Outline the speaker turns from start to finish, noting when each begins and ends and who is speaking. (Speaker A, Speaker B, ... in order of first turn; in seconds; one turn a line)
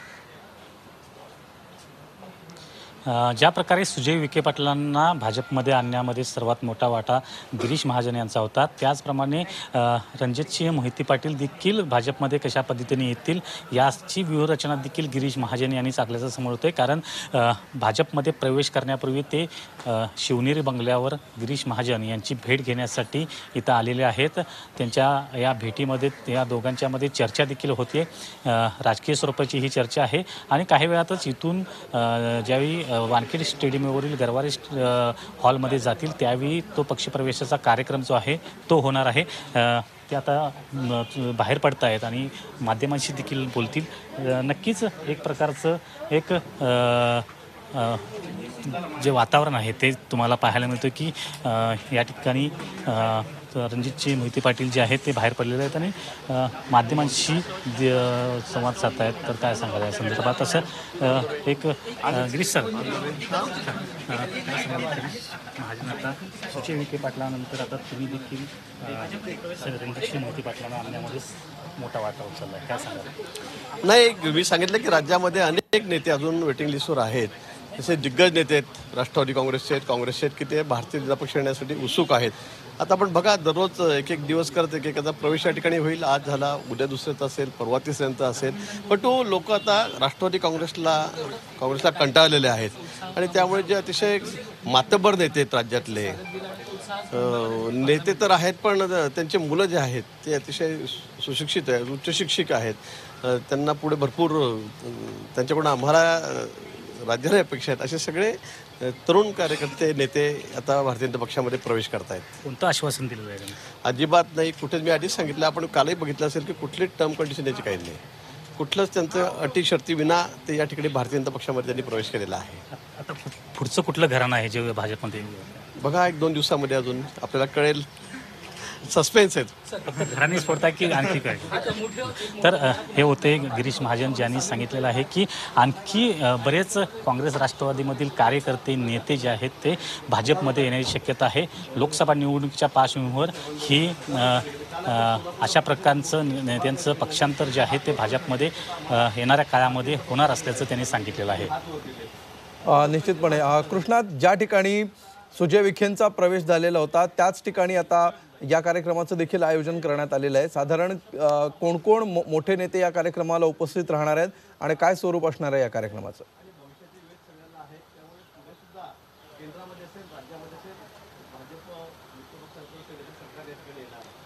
Speaker A: 3.1-73.1
Speaker B: 73.8-96.2
Speaker B: 97.0-112.4
Speaker A: 112.4-113.6
Speaker B: 113.8-118.0
Speaker B: 118.6-122.6
Speaker A: 122.8-125.7
Speaker B: 125.8-127.9
Speaker B: 128.6-129.5
Speaker A: 129.9-151.5
Speaker C: 152.7-166.2
Speaker B: 167.8-168.7
Speaker B: 169.4-170.7
Speaker B: 171.3-174.1